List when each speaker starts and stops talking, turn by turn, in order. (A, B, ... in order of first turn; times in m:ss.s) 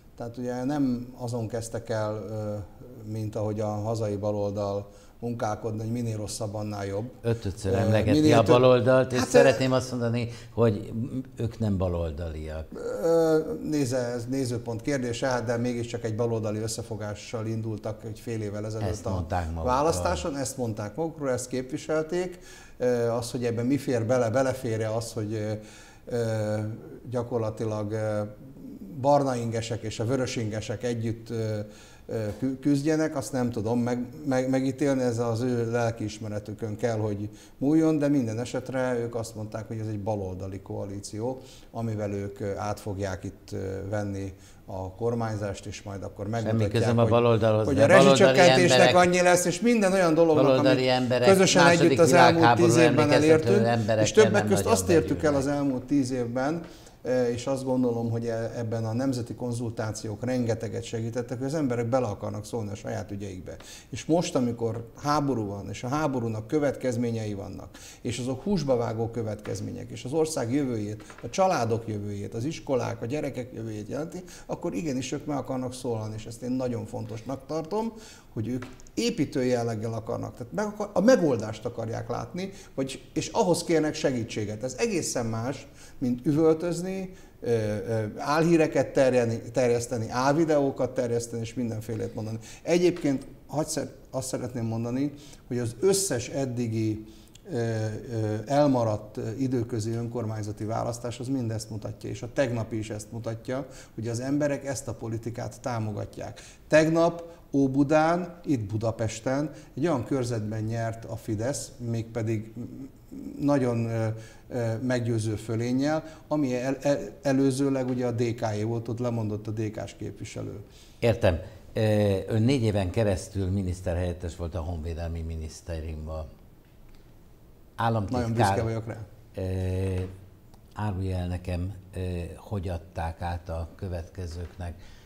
0:00.2-0:09.6 A
0:07.2-0:12.7 B
0:12.7-2:00.6 A
0:18.8-0:20.2 B
0:46.4-0:49.1 B
0:50.3-0:55.5 B
2:01.0-2:06.2 B
2:07.8-2:08.7 B
2:08.1-2:09.0 A
2:09.4-2:10.1 B
2:10.8-2:14.8 B